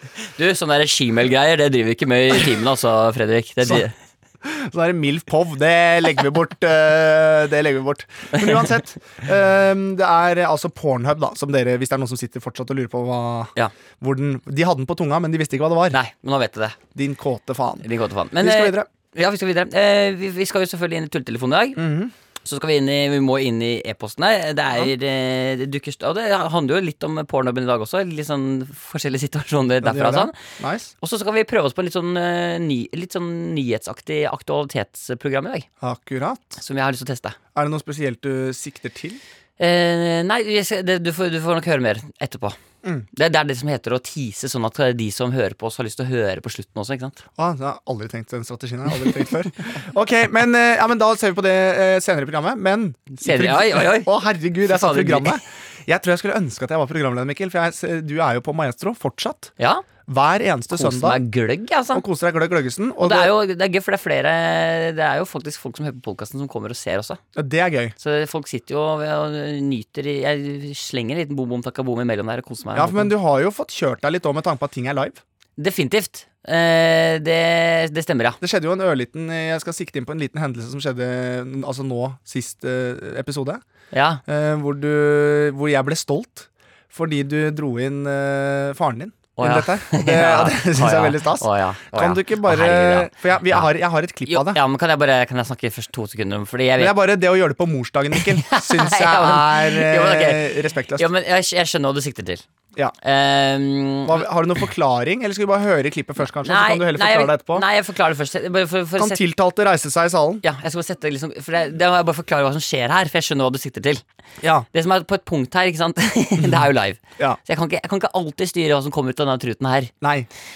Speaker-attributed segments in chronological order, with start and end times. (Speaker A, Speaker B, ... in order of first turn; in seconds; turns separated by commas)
Speaker A: 0.3-3.9, Speaker B: 4.4-16.0, Speaker A: 15.9-16.8, Speaker B: 16.9-17.9, Speaker A: 17.8-21.8, Speaker B: 18.4-18.9, Speaker B: 21.8-22.1, Speaker A: 22.4-30.4, Speaker B: 29.8-30.9, Speaker A: 31.0-35.6, Speaker B: 35.8-36.6, Speaker A: 36.6-37.4, Speaker B: 37.5-39.2, Speaker A: 39.6-42.6, Speaker A: 43.1-47.2, Speaker B: 47.4-59.5, Speaker A: 53.1-54.1, Speaker A: 54.7-55.4, Speaker A: 59.6-59.8, Speaker B: 60.1-61.2, Speaker A: 60.7-62.0, Speaker B: 61.9-63.3, Speaker A: 63.0-67.2, Speaker B: 67.3-67.9, Speaker A: 68.0-73.1, Speaker B: 72.7-75.2, Speaker A: 75.6-78.4, Speaker B: 78.4-83.6, Speaker A: 83.9-84.2, Speaker B: 84.3-94.6, Speaker A: 89.3-93.7, Speaker A: 94.3-97.0, Speaker B: 96.8-101.0, Speaker A: 98.1-102.4, Speaker A: 103.0-104.2, Speaker B: 104.0-107.6, Speaker A: 106.4-109.2, Speaker B: 109.0-110.4, Speaker A: 110.4-114.0, Speaker B: 114.4-114.7, Speaker A: 114.7-119.9, Speaker B: 120.0-120.3